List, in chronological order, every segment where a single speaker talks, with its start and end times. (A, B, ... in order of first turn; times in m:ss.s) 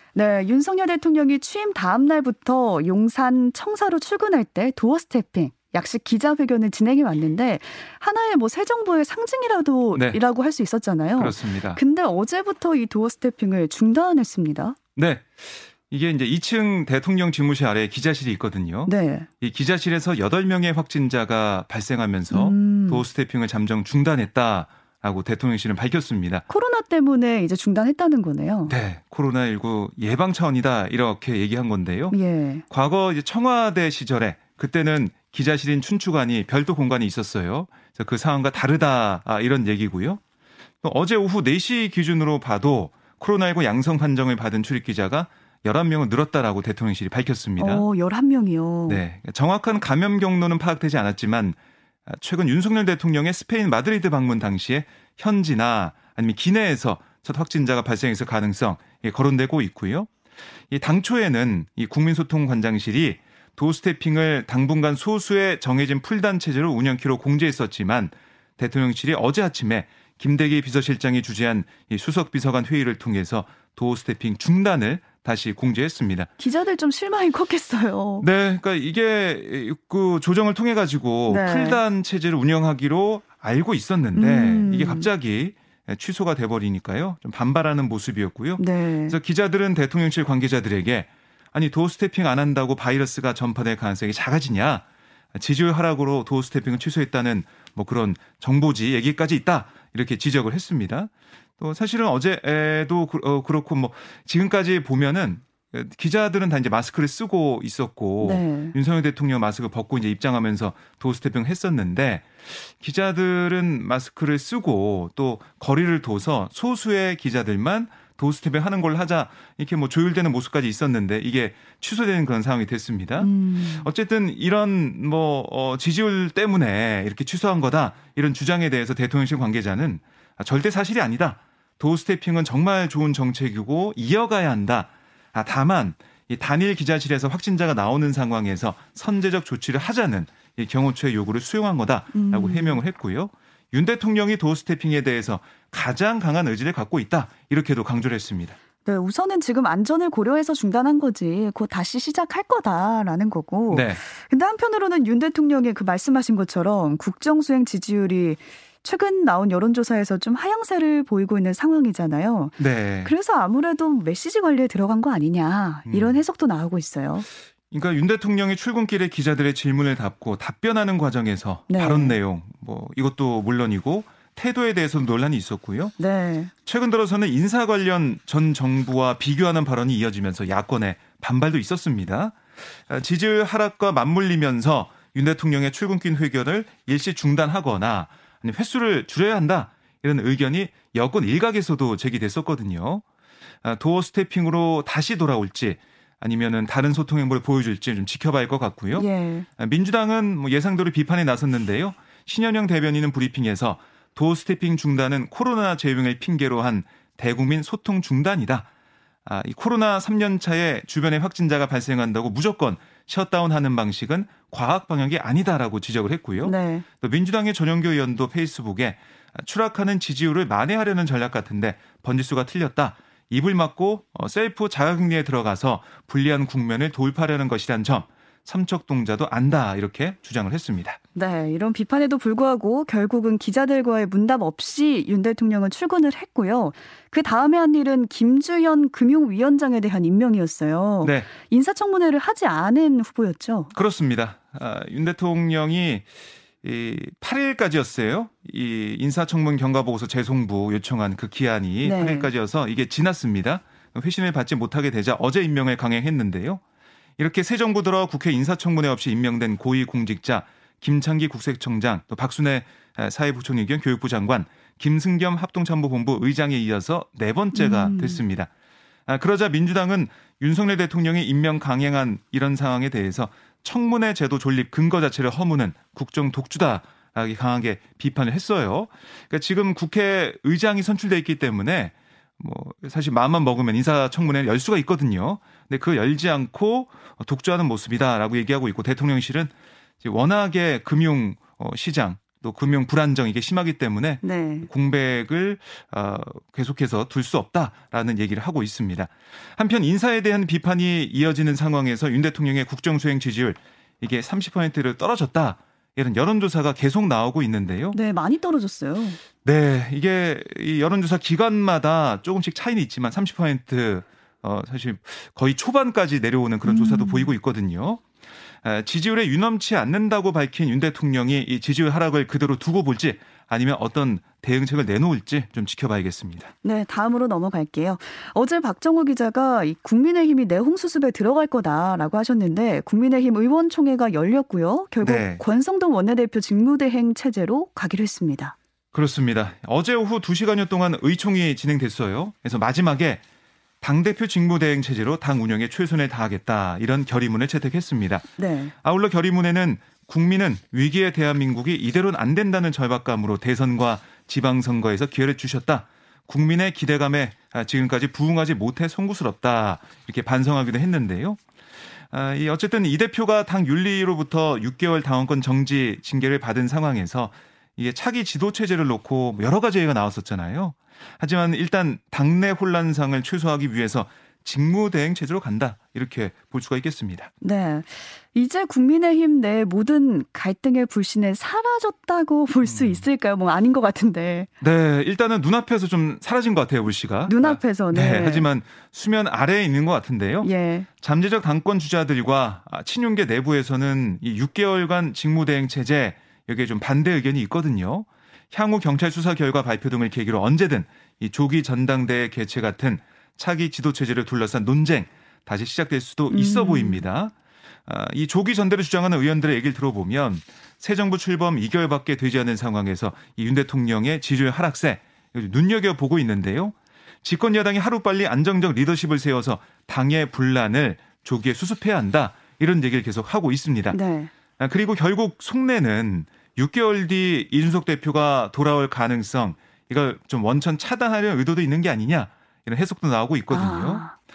0:00.1-0:14.8 A
0:11.2-0:11.8 B
0:15.0-0:26.4 B
0:18.9-0:19.3 A
0:22.3-0:23.0 A
0:26.5-0:28.7 A
0:28.7-0:32.2 B
0:32.1-0:32.6 A
0:32.7-0:40.2 B
0:40.8-0:47.8 B
0:47.6-0:49.0 A
0:48.9-1:00.1 B
1:00.7-1:16.3 B
1:16.4-1:18.3 A
1:18.2-2:28.6 B
1:21.3-1:21.8 A
1:24.1-1:25.1 A
1:28.6-1:29.2 A
1:48.2-1:48.7 A
2:03.2-2:03.9 A
2:22.1-2:22.8 A
2:28.8-2:47.3 A
2:33.7-2:34.0 B
2:42.6-2:43.1 B
2:45.9-2:46.2 B
2:47.7-2:55.9 B
2:51.7-2:52.2 A
2:56.0-2:56.5 A
2:56.6-3:13.0 B
3:13.6-3:19.1 B
3:18.9-3:19.5 A
3:19.6-3:28.7 B
3:29.2-3:51.0 B
3:36.4-3:36.8 A
3:51.1-4:03.7 A
4:01.0-4:01.3 B
4:03.7-4:06.0 B
4:06.6-4:16.6 B
4:11.8-4:12.3 A
4:17.2-4:28.5 B
4:27.5-4:28.2 A
4:29.1-4:49.5 B
4:50.0-5:08.0 B
4:54.2-4:54.7 A
5:07.9-5:09.2 A
5:09.4-5:18.0 B
5:16.6-5:17.3 A
5:18.6-5:26.5 B
5:26.6-5:38.5 A
5:35.0-5:35.4 B
5:38.9-5:43.2 B
5:43.8-5:48.3 B
5:48.4-5:48.7 A
5:48.8-6:01.4 B
6:02.1-6:17.3 B
6:17.4-6:24.5 A
6:22.6-6:23.0 B
6:24.6-6:30.5 B
6:27.3-6:28.5 A
6:30.4-6:30.9 A
6:31.0-6:47.3 B
6:46.3-6:47.0 A
6:47.9-7:04.0 B
7:03.9-7:04.3 A
7:04.6-7:14.1 B
7:13.5-7:14.1 A